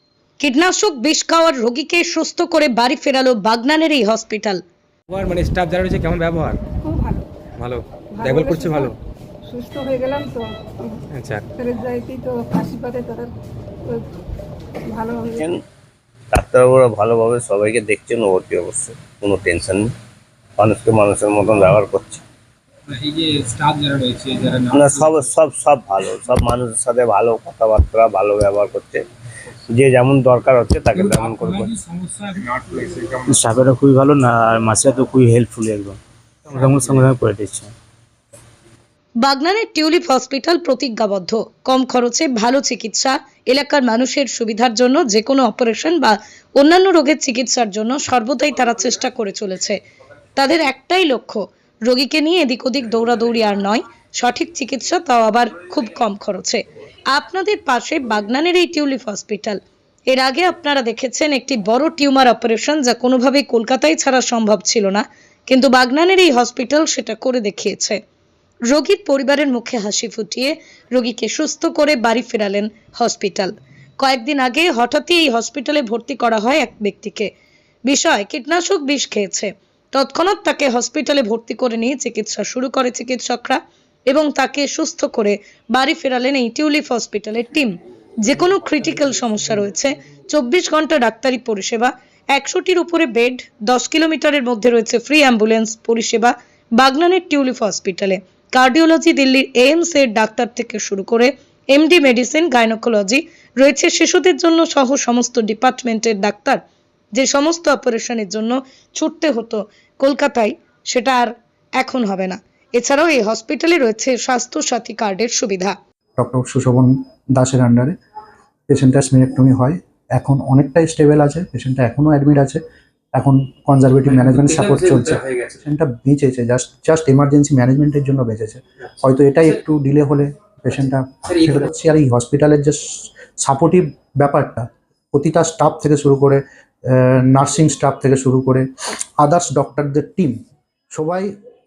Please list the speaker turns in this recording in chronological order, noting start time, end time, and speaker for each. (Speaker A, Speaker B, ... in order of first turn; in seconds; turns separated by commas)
Speaker A: 0.4-4.6, Speaker B: 5.1-6.6, Speaker C: 6.7-7.2, Speaker B: 7.6-8.9, Speaker C: 8.1-8.9, Speaker C: 9.5-13.3, Speaker B: 11.1-11.4, Speaker C: 13.8-14.2, Speaker C: 14.9-15.5, Speaker D: 15.3-15.6, Speaker D: 16.3-19.9, Speaker D: 20.6-22.2, Speaker E: 22.9-24.9, Speaker D: 24.7-29.0, Speaker D: 29.7-31.7, Speaker E: 31.0-33.4, Speaker F: 33.3-37.7, Speaker A: 39.2-49.8, Speaker A: 50.4-68.0, Speaker A: 68.7-77.3, Speaker A: 77.9-106.6, Speaker A: 107.1-115.8, Speaker G: 116.2-118.0, Speaker G: 118.7-122.6, Speaker G: 123.1-140.4, Speaker E: 124.5-125.5, Speaker G: 140.9-141.3